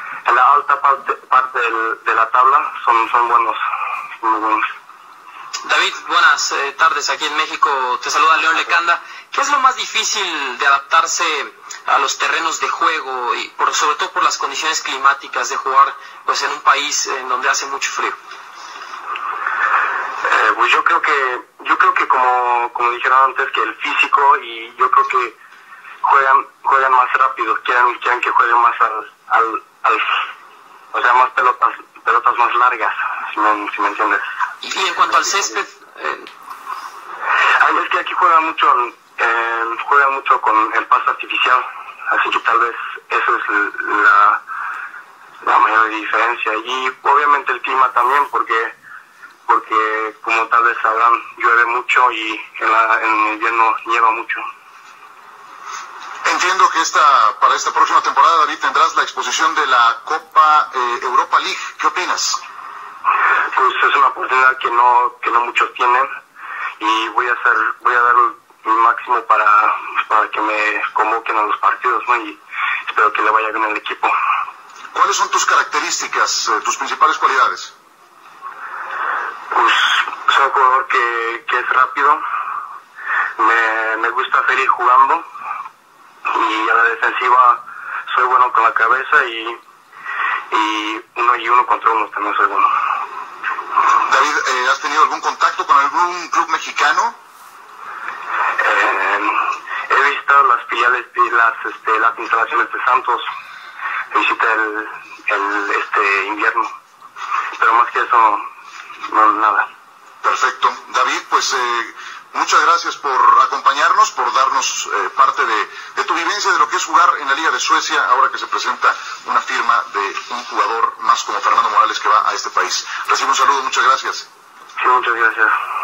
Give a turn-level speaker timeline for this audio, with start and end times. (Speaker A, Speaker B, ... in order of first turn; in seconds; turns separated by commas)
Speaker A: 0.2-3.6, Speaker A: 4.2-4.6, Speaker B: 5.6-18.2, Speaker A: 20.2-25.4, Speaker A: 26.0-30.1, Speaker A: 30.9-34.2, Speaker B: 34.6-36.3, Speaker A: 37.6-44.4, Speaker A: 45.4-48.8, Speaker A: 49.5-54.5, Speaker C: 56.2-62.4, Speaker A: 63.5-66.1, Speaker A: 66.8-74.1, Speaker C: 74.9-77.7, Speaker A: 79.5-82.2, Speaker A: 83.4-85.2, Speaker A: 86.3-89.6, Speaker A: 90.5-92.7, Speaker C: 94.1-97.2, Speaker A: 98.6-103.2, Speaker A: 104.1-106.7, Speaker A: 107.6-108.4, Speaker A: 109.1-109.7, Speaker C: 110.2-124.3, Speaker A: 124.8-125.5